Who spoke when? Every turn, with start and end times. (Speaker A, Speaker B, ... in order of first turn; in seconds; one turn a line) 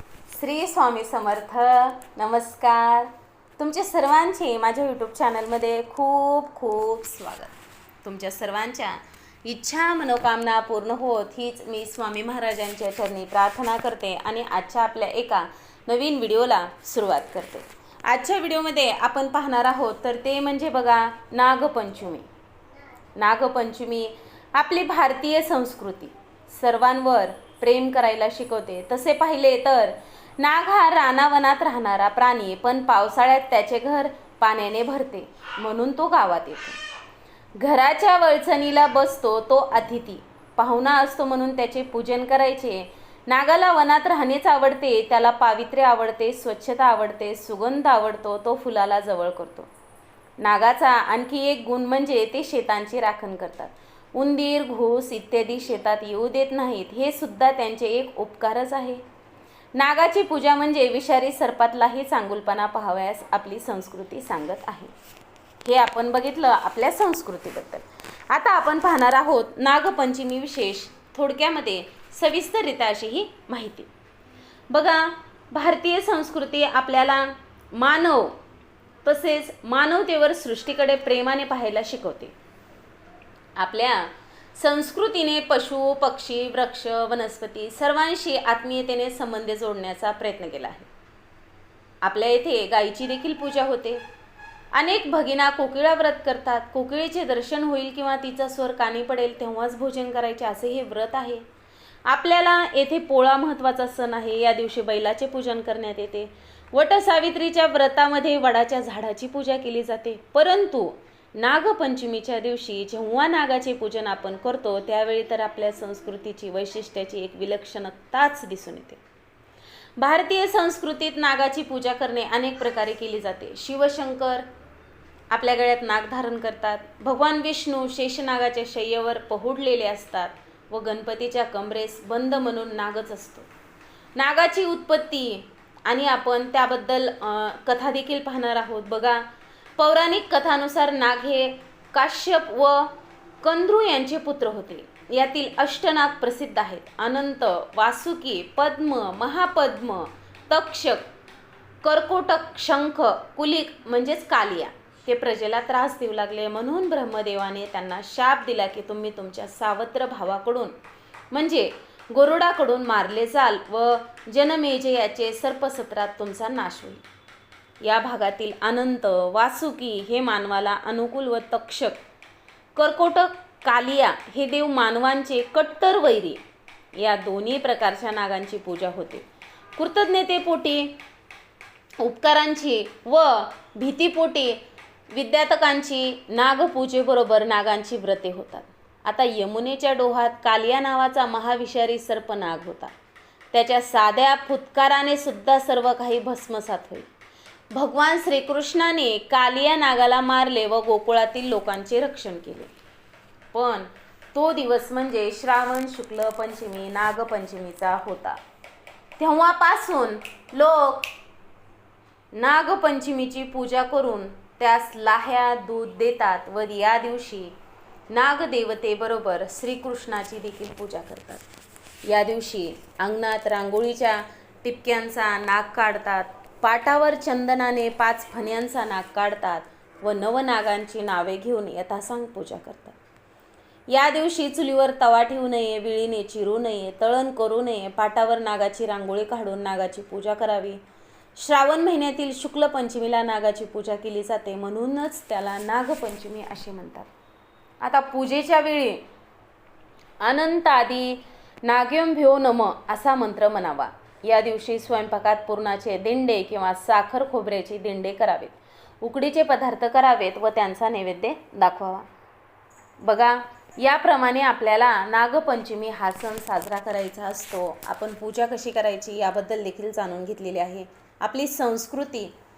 Speaker A: 0.3-22.3
Speaker A: 23.2-36.8
Speaker A: 37.6-49.7
Speaker A: 50.4-59.0
Speaker A: 59.8-64.9
Speaker A: 65.6-73.9
Speaker A: 74.7-78.4
Speaker A: 79.0-82.3
Speaker A: 83.6-90.9
Speaker A: 92.0-94.0
Speaker A: 94.7-101.4
Speaker A: 102.1-119.0
Speaker A: 120.0-124.5
Speaker A: 125.3-133.5
Speaker A: 134.2-139.2
Speaker A: 139.8-151.1
Speaker A: 151.8-160.7
Speaker A: 161.3-167.0
Speaker A: 167.8-172.0
Speaker A: 172.8-176.4
Speaker A: 177.0-179.2
Speaker A: 179.8-181.0
Speaker A: 182.0-192.9
Speaker A: 193.5-197.1
Speaker A: 197.7-202.7
Speaker A: 203.5-208.4
Speaker A: 209.2-211.1
Speaker A: 212.3-217.6
Speaker A: 218.1-221.4
Speaker A: 222.1-233.0
Speaker A: 233.9-240.8
Speaker A: 241.4-247.1
Speaker A: 247.8-249.0
Speaker A: 250.2-262.1
Speaker A: 263.0-272.3